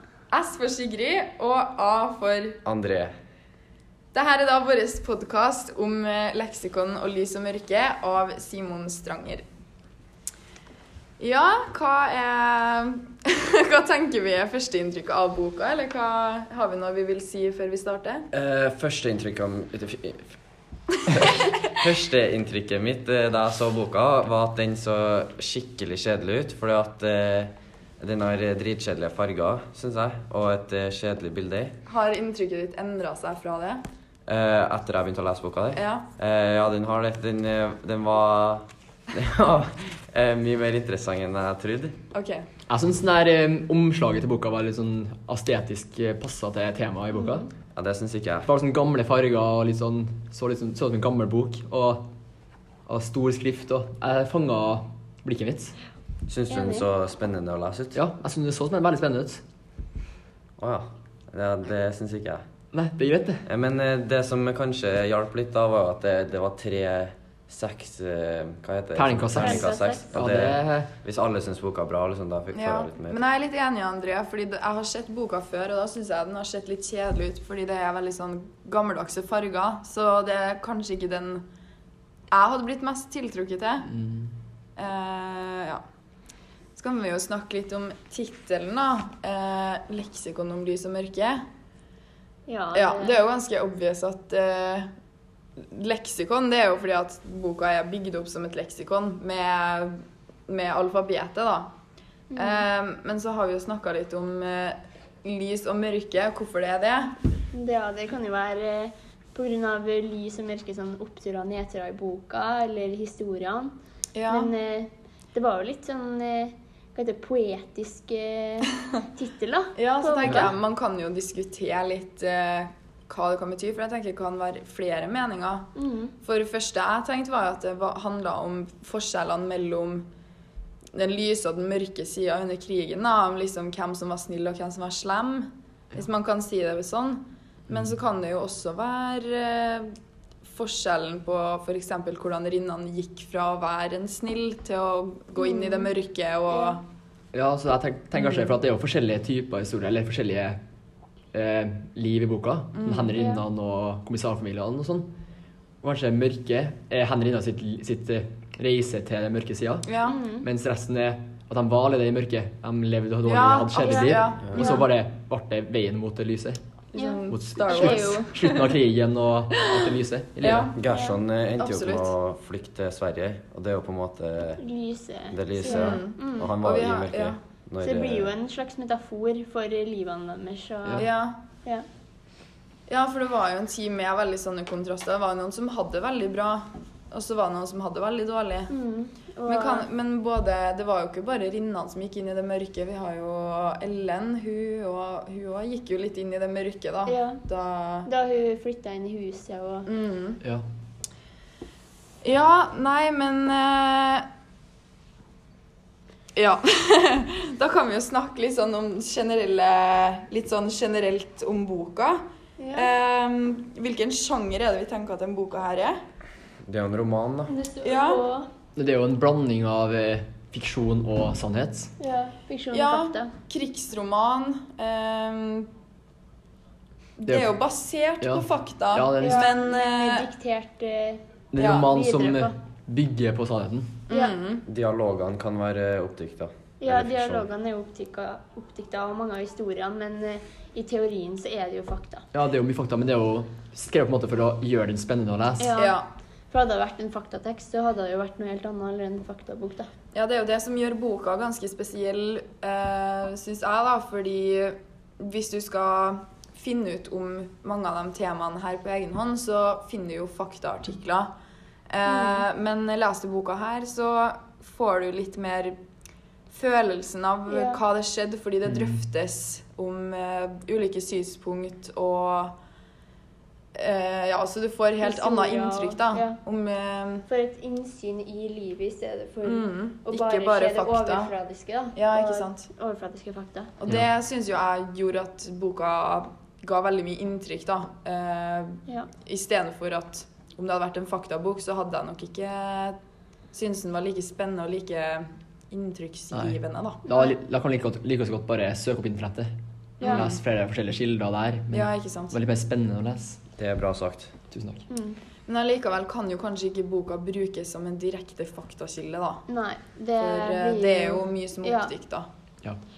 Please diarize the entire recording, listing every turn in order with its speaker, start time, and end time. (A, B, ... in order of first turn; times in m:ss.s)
0:00.3-0:02.6 A
0:02.6-0:03.1 B
0:04.1-0:09.4 A
0:11.2-0:18.3 A
0:18.3-0:20.3 B
0:21.0-0:31.7 B
0:31.9-0:33.8 A
0:34.3-0:42.0 B
0:35.7-0:36.1 A
0:42.1-0:42.4 A
0:42.7-0:47.5 C
0:47.1-0:47.5 D
0:47.7-0:48.5 B
0:48.4-0:52.1 C
0:52.8-0:55.7 C
0:56.3-0:58.0 B
0:56.5-0:56.8 D
0:57.9-0:59.4 C
1:00.6-1:02.4 B
1:02.7-1:03.4 C
1:03.4-1:13.2 B
1:08.9-1:10.9 C
1:09.4-1:10.1 D
1:12.5-1:21.4 A
1:22.3-1:23.9 A
1:23.8-1:24.3 C
1:24.8-1:25.8 A
1:26.8-1:31.4 A
1:32.5-1:33.2 D
1:32.7-1:34.9 A
1:35.6-1:41.7 A
1:42.3-1:42.6 D
1:42.4-1:47.2 A
1:47.5-1:53.7 D
1:54.1-1:54.5 A
1:54.3-2:00.5 D
1:59.8-2:05.7 A
2:05.7-2:06.1 D
2:06.2-2:10.1 A
2:10.9-2:26.8 A
2:25.4-2:25.9 D
2:26.5-2:26.8 D
2:27.3-2:30.6 C
2:31.3-2:35.1 C
2:32.7-2:33.2 A
2:33.1-2:33.4 D
2:35.8-2:39.9 C
2:39.9-2:40.2 A
2:40.0-2:40.4 D
2:40.4-2:46.6 C
2:43.2-2:44.7 A
2:43.8-2:44.8 D
2:46.9-2:48.8 A
2:46.9-2:48.2 D
2:47.3-2:50.7 C
2:50.4-2:50.7 A
2:50.7-2:54.6 B
2:50.9-2:51.2 D
2:51.6-2:52.1 A
2:54.6-2:56.5 D
2:55.3-2:58.3 B
2:55.6-2:57.4 A
2:57.8-3:01.1 D
3:01.0-3:01.4 A
3:02.9-3:08.7 A
3:08.7-3:09.9 D
3:09.5-3:18.1 A
3:17.0-3:17.4 D
3:18.0-3:19.9 D
3:19.8-3:20.4 A
3:22.2-3:24.3 A
3:26.3-3:32.2 A
3:32.6-3:32.9 D
3:32.7-3:36.0 A
3:36.6-3:37.5 B
3:37.5-3:38.5 D
3:37.8-3:38.2 A
3:38.8-3:41.9 C
3:42.0-3:43.3 D
3:42.7-3:45.7 A
3:47.2-3:50.2 A
3:47.3-3:47.5 C
3:48.2-3:49.5 C
3:49.2-3:51.2 D
3:51.5-3:54.0 C
3:51.6-3:51.9 A
3:51.8-3:52.5 D
3:54.1-3:54.6 A
3:54.6-3:57.4 B
3:56.8-4:02.2 D
4:02.3-4:05.7 C
4:05.6-4:06.0 D
4:05.8-4:06.0 A
4:06.5-4:09.9 D
4:10.1-4:21.3 A
4:21.9-4:25.8 A
4:22.0-4:22.4 D
4:26.5-4:32.5 A
4:27.5-4:27.8 D
4:28.7-4:28.9 C
4:33.7-4:37.2 A
4:35.0-4:36.4 D
4:37.3-4:43.7 D
4:39.4-4:41.3 A
4:41.9-4:42.7 A
4:43.8-4:53.0 A
4:53.5-4:57.0 A
4:56.3-5:03.4 C
4:57.0-4:57.3 D
5:00.0-5:00.4 A
5:01.7-5:02.4 A
5:03.6-5:04.4 B
5:04.5-5:04.8 C
5:04.9-5:05.2 D
5:05.5-5:09.4 A
5:09.5-5:11.9 D
5:10.2-5:12.3 A